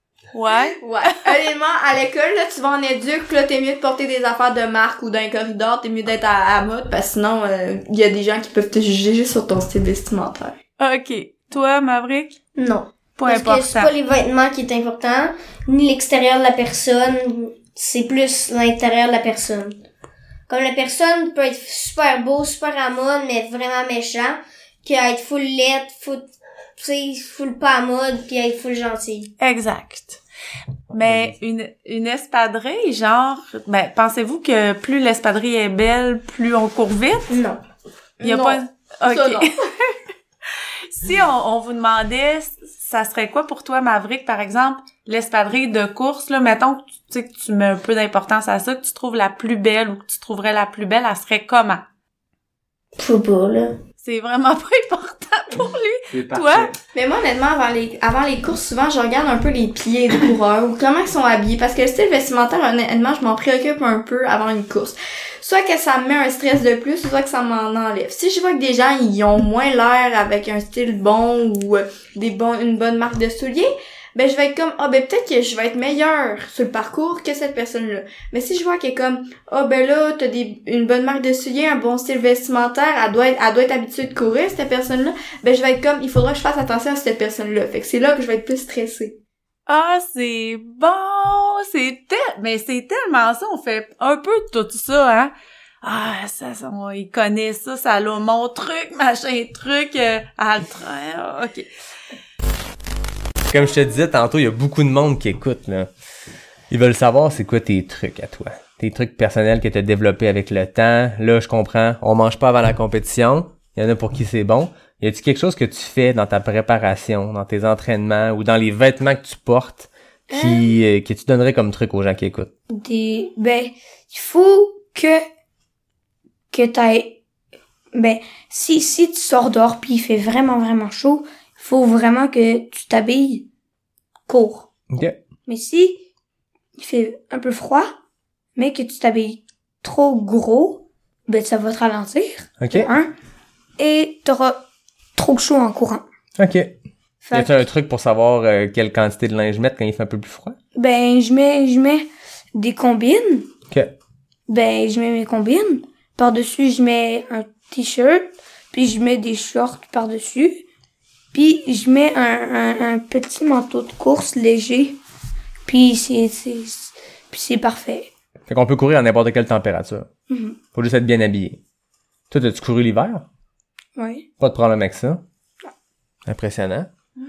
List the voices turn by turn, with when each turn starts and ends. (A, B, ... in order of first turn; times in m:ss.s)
0:00.3-0:01.2 A
0:00.8-0:10.6 B
0:10.8-0:12.4 A
0:12.6-0:19.8 C
0:13.2-0:13.9 A
0:20.5-0:29.3 C
0:29.4-0:30.2 A
0:30.9-0:37.4 A
0:31.0-0:31.3 D
0:37.3-0:37.6 C
0:38.2-0:38.6 B
0:38.2-0:39.6 A
0:39.1-0:39.4 B
0:40.9-0:51.8 A
0:53.0-0:53.8 C
0:54.0-0:56.7 A
0:56.1-0:56.8 D
0:56.9-1:29.2 B
1:29.7-1:41.7 A
1:43.5-1:45.9 D
1:46.7-2:02.5 D
2:00.3-2:00.6 E
2:02.7-2:05.2 E
2:06.5-2:07.2 E
2:07.9-2:13.5 E
2:14.3-2:14.7 E
2:14.9-2:15.2 D
2:15.4-2:16.0 E
2:16.8-2:17.9 E
2:18.6-2:23.1 E
2:22.6-2:22.9 D
2:23.8-2:24.6 E
2:25.2-2:26.0 E
2:26.4-2:26.8 D
2:27.2-2:27.6 E
2:27.3-2:30.6 D
2:30.7-2:33.5 E
2:34.5-2:40.6 E
2:41.3-2:45.0 E
2:45.6-2:48.1 E
2:48.5-2:50.1 D
2:50.3-2:50.6 E
2:50.7-2:51.6 D
2:52.3-2:53.2 D
2:54.0-2:54.2 E
2:54.4-2:55.2 D
2:56.2-2:56.9 D